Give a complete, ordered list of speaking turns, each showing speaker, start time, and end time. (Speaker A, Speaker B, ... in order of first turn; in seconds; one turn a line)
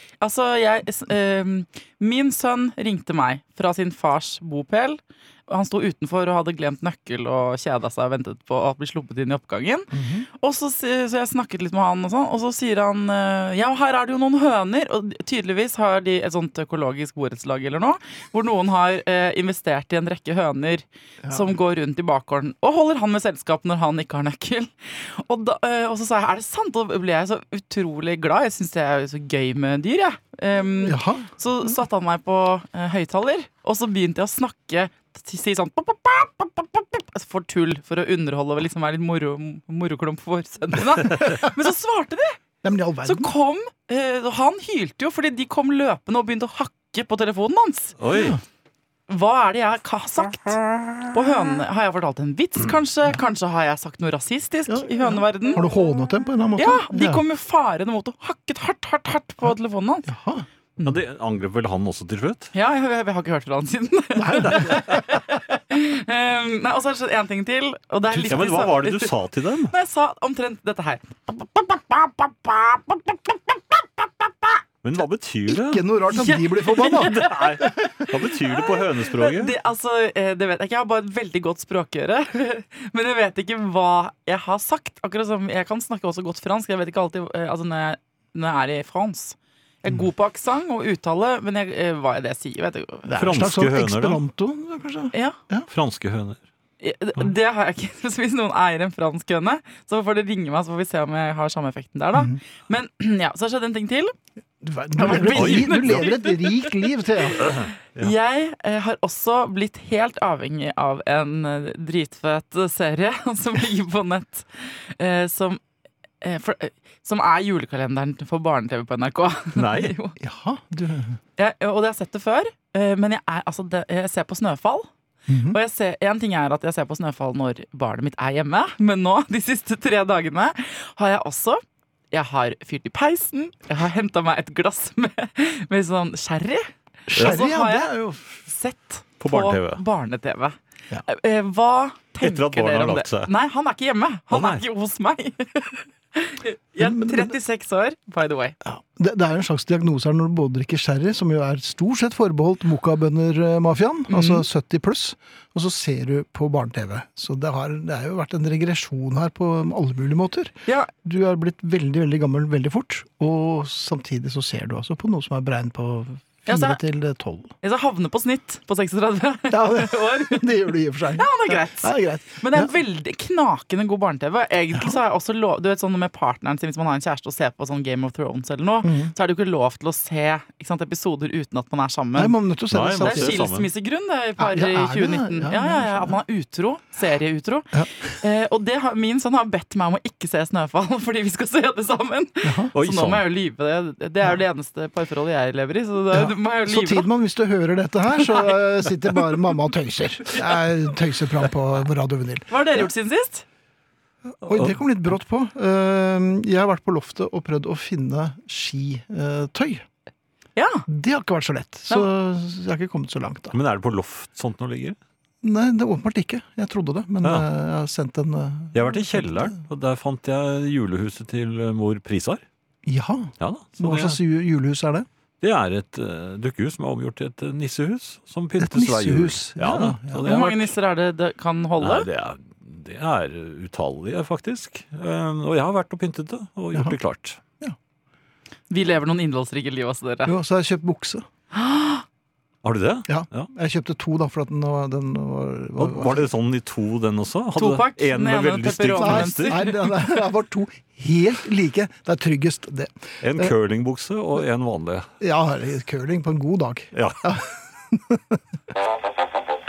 Speaker A: 0.2-42.4
Speaker B: 9.9-10.3
Speaker B: 21.2-21.5
Speaker B: 30.8-31.3
Speaker B: 41.0-41.5
Speaker B: 42.6-43.3
Speaker A: 43.0-48.0
Speaker C: 48.0-48.4
Speaker B: 48.1-48.4
Speaker A: 49.1-50.6
Speaker A: 51.1-55.7
Speaker B: 54.7-57.2
Speaker A: 56.6-60.1
Speaker B: 60.0-60.5
Speaker C: 60.8-62.5
Speaker A: 62.5-69.1
Speaker B: 64.2-65.0
Speaker C: 64.4-64.8
Speaker B: 68.1-68.5
Speaker C: 68.3-69.7
Speaker A: 69.7-74.5
Speaker C: 74.8-75.8
Speaker B: 75.7-77.7
Speaker A: 76.1-77.3
Speaker C: 76.9-79.5
Speaker A: 78.5-93.2
Speaker B: 93.1-95.7
Speaker C: 93.2-94.2
Speaker C: 95.7-96.4
Speaker A: 96.8-104.1
Speaker B: 104.6-107.5
Speaker A: 105.0-106.7
Speaker C: 105.1-106.1
Speaker C: 107.4-108.1
Speaker A: 108.0-115.6
Speaker A: 116.2-120.1
Speaker C: 119.5-119.9
Speaker B: 120.2-121.2
Speaker A: 121.4-124.9
Speaker B: 125.3-125.6
Speaker A: 125.5-131.6
Speaker A: 132.1-137.9
Speaker B: 137.1-138.3
Speaker C: 137.2-137.4
Speaker A: 138.4-140.6
Speaker C: 139.2-139.8
Speaker A: 141.1-148.6
Speaker C: 142.2-143.3
Speaker C: 144.3-144.6
Speaker B: 146.8-147.3
Speaker B: 148.6-167.5
Speaker A: 154.1-154.4
Speaker A: 166.5-166.8
Speaker A: 167.6-182.3
Speaker B: 169.5-172.7
Speaker B: 178.8-179.1
Speaker B: 182.2-183.4
Speaker C: 182.7-183.7
Speaker A: 183.0-187.7
Speaker B: 184.4-186.2
Speaker B: 187.7-188.2
Speaker A: 188.2-197.1
Speaker B: 192.4-192.7
Speaker C: 192.7-193.2
Speaker B: 196.1-202.9
Speaker A: 202.5-203.4
Speaker B: 204.4-209.8
Speaker C: 204.4-204.7
Speaker A: 210.6-210.8
Speaker B: 210.9-213.6
Speaker C: 213.5-215.0
Speaker B: 215.4-219.6
Speaker C: 218.7-222.4
Speaker B: 222.8-225.1
Speaker C: 223.4-224.2
Speaker C: 225.4-230.7
Speaker B: 228.6-230.3
Speaker A: 230.2-232.1
Speaker C: 231.8-237.4
Speaker A: 238.7-240.3
Speaker B: 240.2-241.2
Speaker A: 241.5-242.0
Speaker C: 242.6-243.5
Speaker B: 243.1-246.3
Speaker C: 245.8-249.8
Speaker A: 247.6-249.9
Speaker B: 248.9-253.5
Speaker C: 253.2-255.1
Speaker B: 255.2-258.4
Speaker C: 256.9-257.2